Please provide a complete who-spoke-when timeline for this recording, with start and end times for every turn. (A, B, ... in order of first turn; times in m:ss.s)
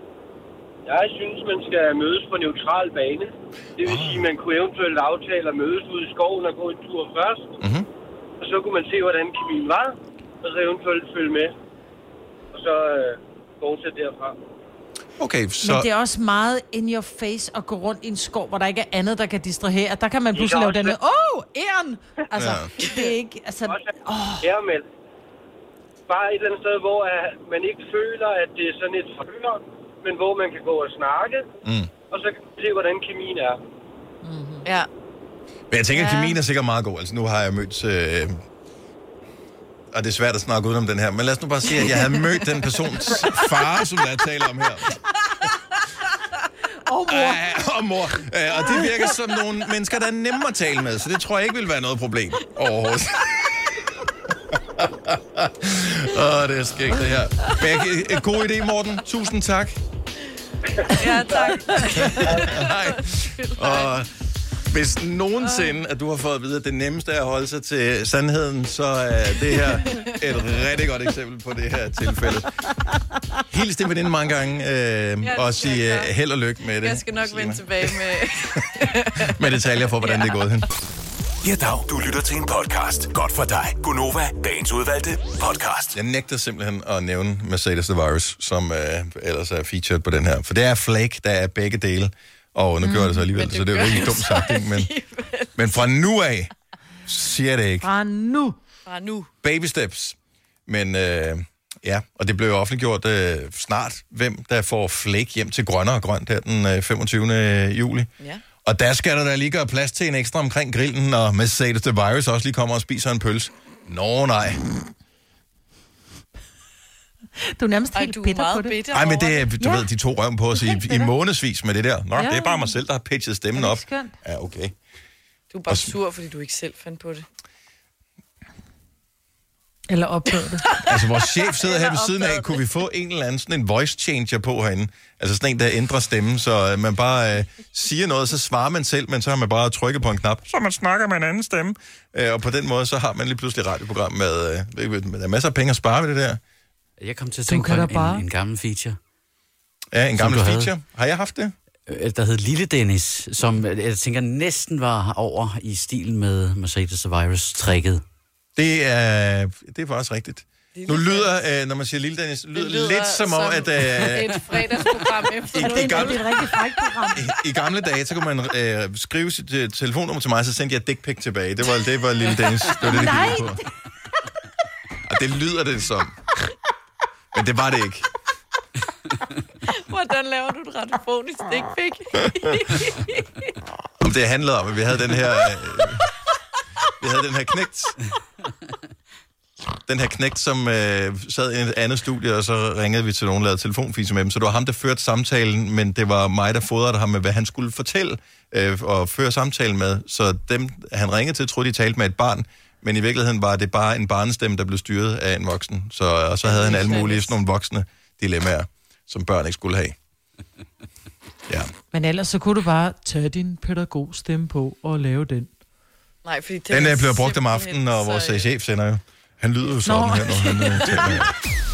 0:00.9-0:07.6 A
0:03.8-0:04.3 B
0:07.6-0:07.9 B
0:08.4-0:11.5 A
0:12.5-0:14.4 A
0:15.2-0:15.9 B
0:15.6-0:24.5 C
0:20.4-0:20.9 A
0:22.4-0:22.7 B
0:22.8-0:23.1 D
0:23.6-0:24.9 A
0:26.1-0:31.5 A
0:31.6-0:31.9 B
0:32.1-0:33.6 A
0:34.2-0:34.6 C
0:35.7-0:38.4 B
0:35.9-0:36.4 D
0:39.9-0:45.0 B
0:41.8-0:42.0 D
0:46.9-0:47.4 C
0:47.1-0:53.7 B
0:54.5-0:59.8 B
1:00.9-1:04.0 D
1:02.0-1:12.5 B
1:05.4-1:05.8 D
1:09.9-1:10.2 D
1:13.5-1:18.0 B
1:15.2-1:16.2 D
1:16.8-1:19.4 D
1:19.2-1:20.7 B
1:20.0-1:20.5 D
1:21.4-1:26.0 E
1:25.9-1:34.9 B
1:33.1-1:35.8 D
1:35.6-1:36.5 B
1:37.1-1:37.9 B
1:37.8-1:38.6 C
1:38.9-1:39.3 D
1:39.4-1:48.1 B
1:48.6-1:54.6 B
1:57.5-1:58.8 C
1:57.9-1:59.5 D
1:58.9-2:04.8 B
1:59.6-1:59.9 C
2:02.2-2:02.8 C
2:03.6-2:04.2 C
2:05.5-2:07.3 D
2:09.9-2:10.6 C
2:10.6-2:12.7 D
2:10.9-2:26.4 B
2:27.0-2:29.0 F
2:27.5-2:28.2 C
2:29.9-2:31.5 B
2:30.2-2:30.7 F
2:31.9-2:38.0 F
2:38.6-2:44.6 B
2:40.7-2:41.3 D
2:42.6-2:46.6 D
2:45.5-2:46.4 B
2:45.6-2:47.2 C
2:47.1-2:53.6 B
2:52.8-2:53.6 C
2:55.0-2:56.2 B
2:57.3-2:58.1 B
2:59.7-3:03.5 D
3:04.0-3:06.1 B
3:07.0-3:08.0 B
3:09.9-3:30.0 B
3:26.4-3:27.4 D
3:31.9-3:35.5 C
3:36.2-3:38.5 D
3:36.7-3:41.3 B
3:39.9-3:40.8 C